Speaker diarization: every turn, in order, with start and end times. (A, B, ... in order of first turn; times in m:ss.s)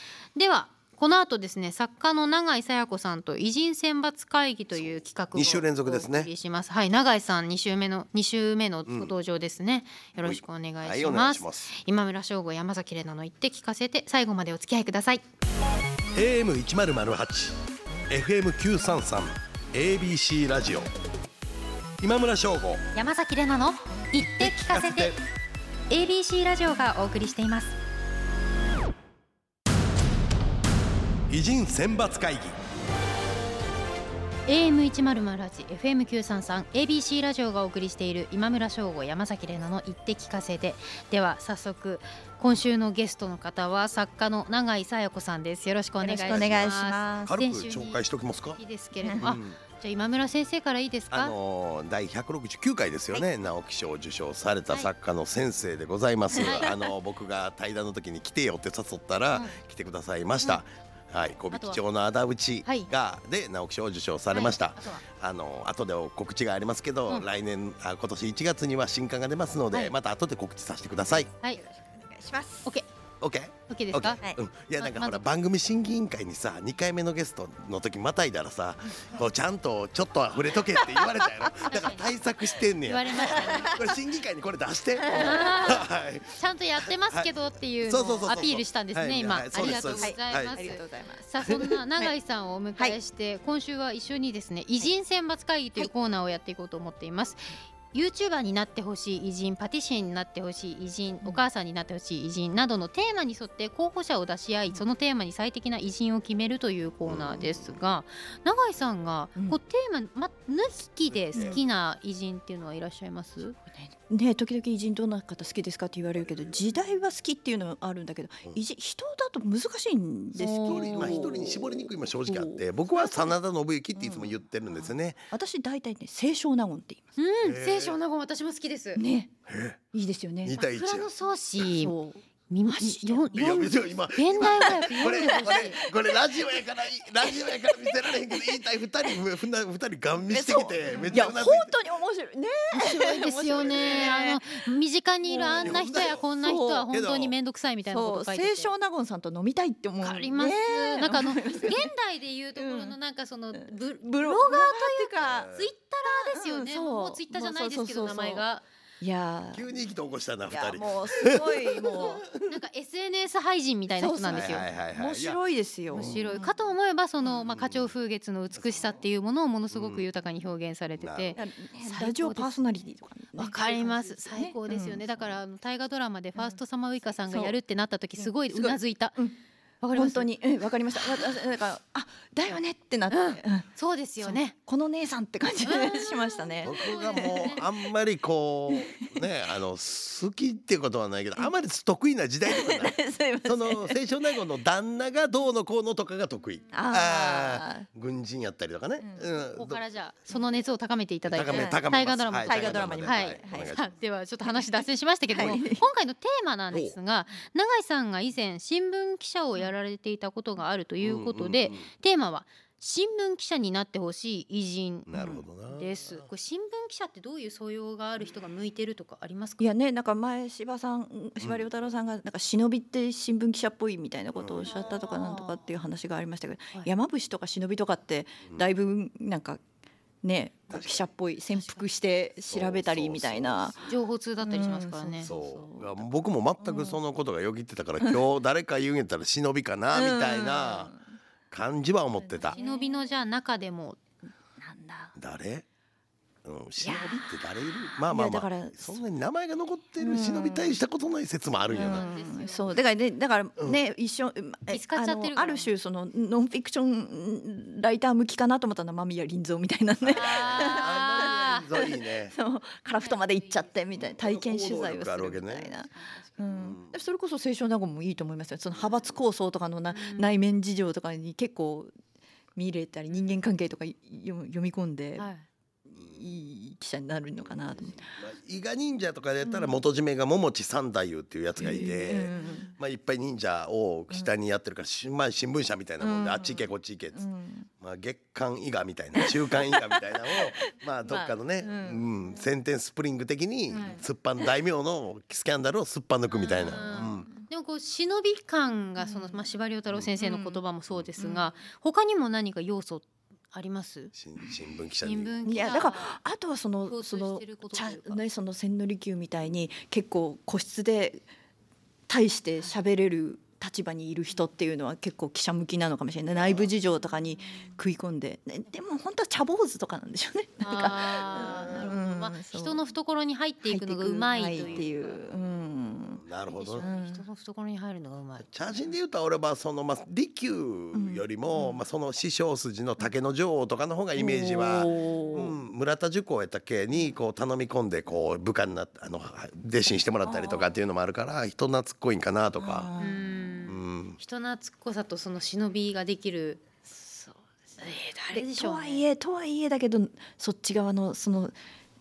0:00.3-0:15.2 A
0:04.7-0:06.3 B
0:08.9-0:09.1 B
0:10.2-0:11.7 B
0:16.1-0:17.6 B
0:18.1-0:20.9 B
0:22.0-0:22.8 B
0:22.9-0:25.2 A
0:24.4-0:25.2 B
0:25.9-0:27.8 A
0:31.3-0:32.6 B
0:34.5-0:48.0 A
0:46.0-0:47.4 C
0:46.3-0:46.7 B
0:47.2-0:48.6 B
0:48.6-0:51.3 A
0:49.0-0:49.3 C
0:49.1-0:49.6 B
0:51.1-1:11.3 B
0:56.4-0:56.7 C
0:56.4-0:56.8 A
1:01.5-1:01.8 A
1:04.3-1:05.0 A
1:11.5-1:12.7 C
1:13.2-1:27.3 B
1:13.7-1:14.2 A
1:14.8-1:15.2 A
1:20.8-1:21.3 C
1:21.7-1:22.1 A
1:22.8-1:23.8 A
1:23.3-1:23.8 C
1:25.0-1:25.5 C
1:25.1-1:53.6 A
1:27.8-1:30.6 B
1:29.5-1:32.1 C
1:47.1-1:47.7 B
1:51.1-1:51.6 B
1:51.3-1:51.6 C
1:53.7-2:03.3 C
2:00.4-2:01.3 A
2:00.6-2:05.2 B
2:03.9-2:07.1 C
2:07.2-2:09.0 A
2:07.4-2:08.0 B
2:09.0-2:09.3 C
2:09.5-2:09.8 B
2:09.9-2:10.6 C
2:10.4-2:11.1 B
2:10.6-2:11.9 A
2:11.8-2:13.7 C
2:12.5-2:15.8 A
2:13.3-2:21.7 B
2:14.4-2:16.6 C
2:17.2-2:19.2 C
2:20.3-2:24.4 C
2:22.7-2:28.7 A
2:23.5-2:24.1 B
2:25.2-2:26.9 C
2:25.5-2:26.3 B
2:26.9-2:27.3 B
2:27.9-2:31.9 C
2:30.0-2:38.6 A
2:32.6-2:32.9 C
2:33.5-2:35.5 C
2:35.2-2:35.7 B
2:36.0-2:38.4 C
2:39.0-2:39.6 C
2:39.5-2:42.5 B
2:40.5-2:42.2 C
2:42.2-2:44.6 A
2:44.0-2:46.5 C
2:44.3-2:45.4 B
2:45.9-2:52.5 A
2:45.9-2:46.2 B
2:47.5-2:47.9 B
2:48.6-2:49.0 B
2:49.7-2:50.0 B
2:51.0-2:51.4 B
2:51.4-2:55.0 C
2:53.3-2:59.2 A
2:57.3-2:57.6 C
2:58.2-2:59.4 C
2:59.8-3:00.3 A
2:59.9-3:03.6 C
3:03.1-3:04.5 A
3:04.2-3:07.8 C
3:05.6-3:07.6 A
3:06.6-3:19.8 B
3:08.7-3:09.2 C
3:12.4-3:14.0 C
3:16.7-3:17.9 C
3:19.0-3:19.2 C
3:19.6-3:35.1 A
3:21.3-3:23.9 B
3:21.5-3:21.8 C
3:22.4-3:23.8 C
3:24.4-3:25.8 C
3:31.0-3:31.8 B
3:35.1-3:36.2 B
3:35.1-3:35.4 C
3:35.7-3:39.7 A
3:39.6-3:49.6 C
3:44.4-3:44.7 B
3:44.7-3:45.6 A
3:50.2-3:53.8 C
3:50.7-3:51.0 B
3:51.5-3:51.8 A
3:52.5-3:54.0 B
3:53.8-3:55.3 A
3:54.4-3:56.0 C
3:55.2-4:00.9 B
3:56.6-3:57.0 C
3:59.9-4:01.0 C
4:01.5-4:02.6 B
4:02.2-4:03.0 C
4:02.5-4:04.0 A
4:04.6-4:05.1 C
4:05.2-4:05.6 B
4:06.4-4:12.1 B
4:06.8-4:07.3 C
4:07.9-4:09.0 C
4:10.0-4:10.8 C
4:11.7-4:12.8 A
4:11.7-4:31.9 C
4:14.7-4:15.7 A
4:20.0-4:22.3 B
4:20.1-4:21.6 A
4:22.9-4:23.6 A
4:24.0-4:25.7 B
4:26.5-4:26.9 B
4:29.9-4:30.3 A
4:32.5-4:35.3 C
4:35.2-4:35.4 A
4:35.8-4:38.1 C
4:37.4-4:47.3 B
4:39.4-4:39.8 C
4:41.6-4:42.7 C
4:42.4-4:42.7 A
4:46.0-4:47.7 C
4:47.8-4:57.3 B
4:49.1-4:52.1 C
4:53.7-4:54.0 C
4:56.3-5:04.1 A
4:56.6-4:57.2 C
4:59.0-4:59.4 C
5:00.2-5:00.6 C
5:01.2-5:01.5 C
5:04.1-5:05.4 B
5:05.0-5:06.2 A
5:05.4-5:11.2 C
5:06.8-5:08.2 A
5:12.1-5:22.8 C
5:16.4-5:16.7 B
5:20.6-5:25.2 A
5:23.6-5:26.2 C
5:24.5-5:24.9 B
5:26.2-5:26.9 B
5:26.6-5:28.5 A
5:26.8-5:27.2 C
5:28.5-5:42.9 B
5:30.9-5:31.8 C
5:34.2-5:35.5 C
5:40.2-5:40.7 C
5:42.6-5:43.6 C
5:43.0-5:46.6 A
5:43.7-5:44.2 B
5:46.9-5:47.4 C
5:47.8-5:49.0 A
5:48.3-5:51.5 C